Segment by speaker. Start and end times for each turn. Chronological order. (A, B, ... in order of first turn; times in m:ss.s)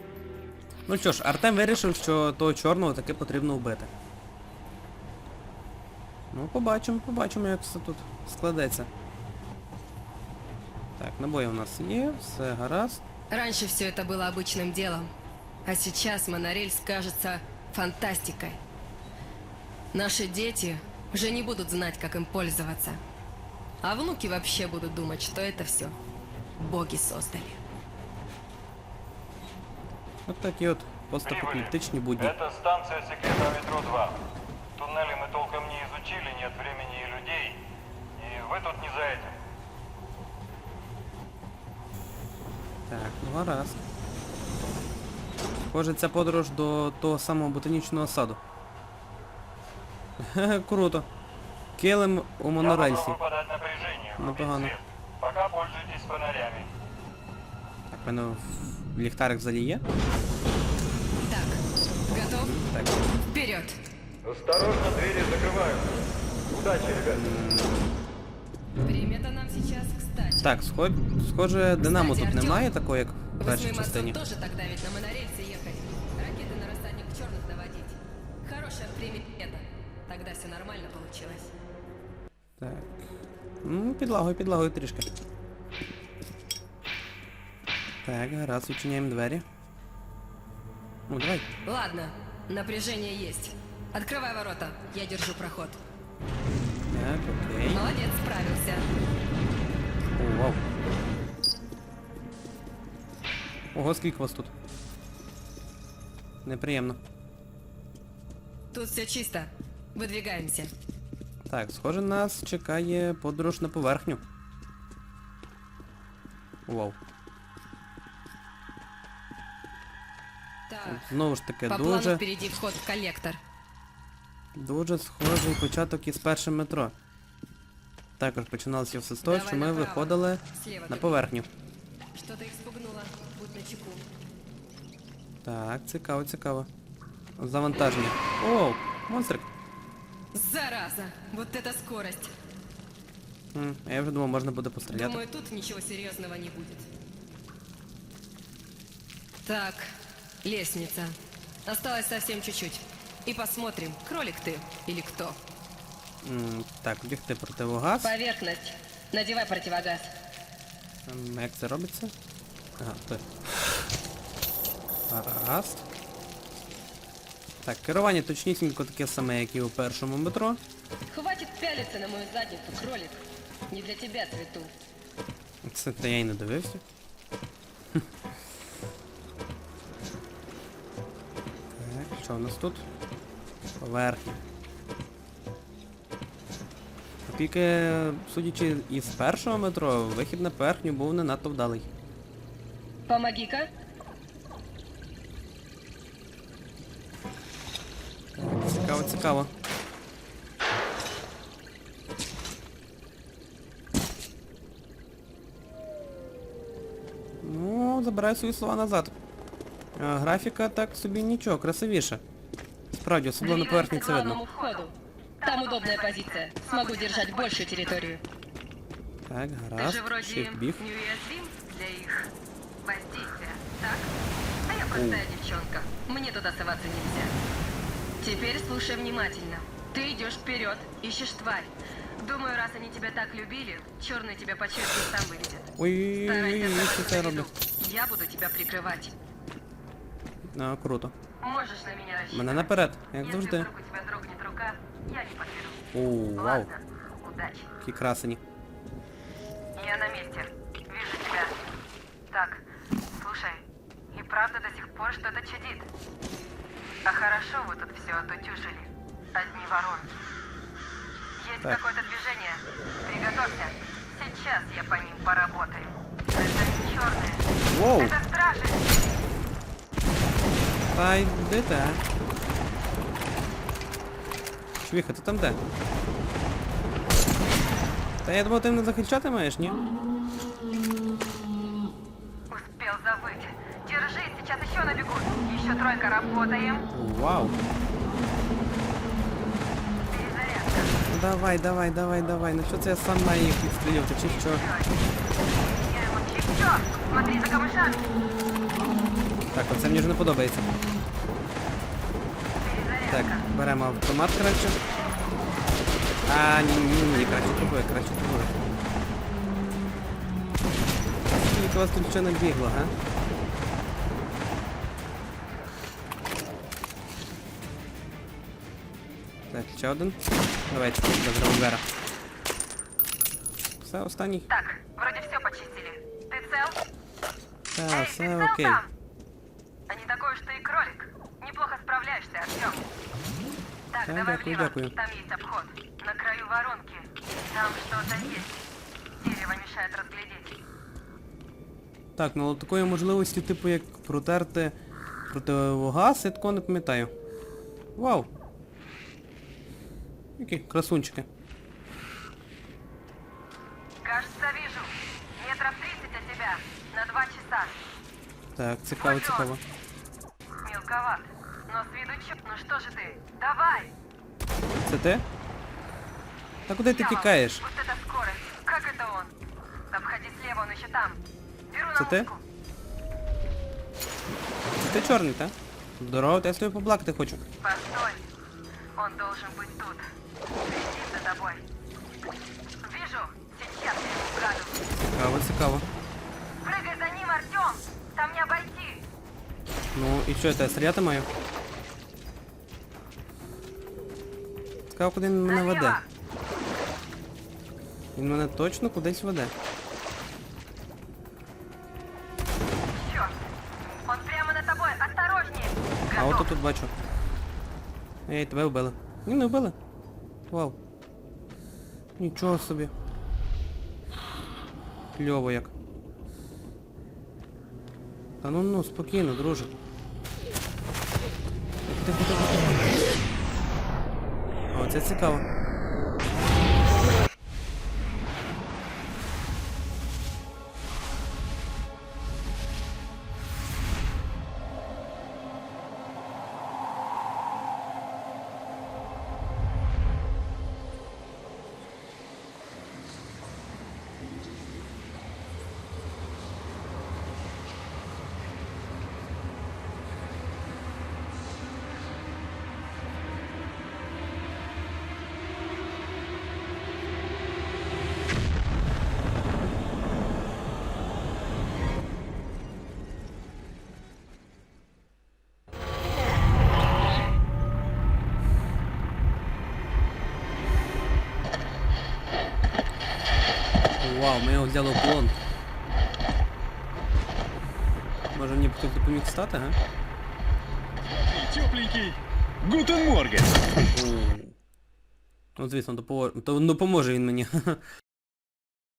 0:00.9-0:03.9 A
0:06.3-0:08.9 A
0:11.0-0:13.0 A
0:13.3-0:15.1 B
0:15.7-0:18.6 B
0:19.9-0:23.0 B
0:23.8-0:26.0 B
0:26.6-0:27.6 B
0:30.3-0:32.3 A
0:31.2-0:34.2 C
0:34.8-0:37.6 C
0:38.2-0:39.4 C
0:42.9-0:43.8 A
0:45.7-0:48.4 A
0:50.2-0:51.1 A
0:51.8-0:53.2 A
0:52.6-0:56.7 C
0:54.2-0:54.8 A
0:57.9-0:59.8 A
1:01.2-1:02.5 B
1:02.4-1:03.1 A
1:03.3-1:03.8 B
1:04.2-1:05.9 C
1:06.5-1:07.2 C
1:07.0-1:07.9 A
1:08.8-1:10.5 B
1:10.4-1:14.2 A
1:11.8-1:12.7 B
1:13.4-1:21.5 B
1:22.6-1:23.0 A
1:23.6-1:25.1 A
1:28.0-1:29.4 A
1:31.1-1:31.5 A
1:31.7-1:35.8 B
1:36.9-1:37.8 A
1:37.7-1:38.9 B
1:40.2-1:40.6 A
1:43.7-1:44.5 A
1:46.4-1:47.0 A
1:48.7-1:50.7 B
1:51.5-1:54.2 A
1:56.7-1:57.0 A
2:00.7-2:01.0 B
2:00.8-2:02.2 A
2:01.7-2:03.4 B
2:04.6-2:06.9 A
2:08.2-2:11.5 A
2:09.2-2:11.2 B
2:12.2-2:14.0 B
2:15.4-2:16.7 A
2:17.4-2:19.5 A
2:20.3-2:22.3 B
2:23.5-2:25.2 A
2:24.9-2:26.9 B
2:29.4-2:29.9 B
2:30.4-2:31.2 B
2:31.7-2:35.4 B
2:36.2-2:38.1 A
2:38.0-2:40.1 B
2:41.1-2:42.1 A
2:42.8-2:43.2 A
2:45.1-2:45.8 A
2:47.6-2:50.6 A
2:51.1-2:54.7 B
2:55.6-2:56.8 A
3:01.8-3:02.8 A
3:03.8-3:04.4 A
3:07.3-3:11.9 A
3:13.1-3:13.7 B
3:18.4-3:19.5 A
3:27.4-3:29.1 A
3:30.0-3:32.2 A
3:33.0-3:34.4 A
3:33.4-3:38.2 B
3:39.3-3:40.8 A
3:39.8-3:42.3 B
3:42.8-3:44.1 B
3:44.7-3:47.3 B
3:44.9-3:45.2 A
3:48.2-3:55.7 B
3:55.8-3:57.5 A
3:56.3-3:59.1 B
4:00.5-4:01.1 A
4:01.4-4:05.8 B
4:02.3-4:03.7 A
4:05.9-4:06.7 A
4:06.4-4:07.7 B
4:07.8-4:08.4 A
4:09.8-4:11.6 B
4:12.3-4:12.6 B
4:13.2-4:13.6 B
4:14.1-4:15.9 B
4:17.0-4:20.1 B
4:21.4-4:28.9 B
4:27.7-4:28.2 A
4:30.9-4:32.0 A
4:34.8-4:35.6 A
4:38.2-4:39.8 A
4:42.5-4:46.8 B
4:46.9-4:47.6 A
4:50.1-4:51.0 B
4:51.1-4:54.6 A
4:54.2-4:55.0 B
4:55.6-4:58.0 B
4:59.5-5:00.7 A
5:02.6-5:03.4 B
5:03.1-5:04.8 A
5:06.3-5:08.6 A
5:11.3-5:12.9 A
5:19.5-5:21.8 A
5:23.8-5:24.5 A
5:24.5-5:26.8 B
5:27.7-5:28.8 A
5:27.9-5:28.9 B
5:29.9-5:32.8 B
5:33.9-5:38.5 B
5:34.1-5:34.9 A
5:39.2-5:40.5 B
5:42.2-5:44.8 A
5:45.3-5:47.1 A
5:48.0-5:48.3 A
5:50.4-5:51.3 A
5:54.0-5:57.8 B
5:58.6-5:59.6 A
5:59.0-5:59.5 B
6:00.6-6:03.9 B
6:04.8-6:05.2 A
6:06.7-6:07.6 A
6:06.9-6:09.3 B
6:09.9-6:11.2 B
6:11.7-6:12.4 B
6:12.0-6:12.3 A
6:14.8-6:17.4 A
6:17.6-6:18.2 B
6:19.0-6:20.0 B
6:20.7-6:21.6 B
6:22.8-6:24.8 B
6:24.9-6:25.9 A
6:26.6-6:29.0 B
6:29.9-6:31.3 A
6:34.9-6:36.0 A
6:35.5-6:36.0 B
6:38.2-6:39.5 A
6:42.9-6:43.3 B
6:44.1-6:46.5 B
6:46.1-6:46.9 A
6:48.3-6:49.8 A
6:50.5-6:50.8 A
6:52.2-6:52.9 A
6:55.2-6:55.7 A
6:58.4-6:59.7 A
7:01.9-7:03.0 A
7:04.7-7:05.4 A
7:54.0-7:55.4 A
7:58.3-7:59.8 A
8:01.0-8:03.7 D
8:03.9-8:04.6 A
8:05.6-8:07.8 A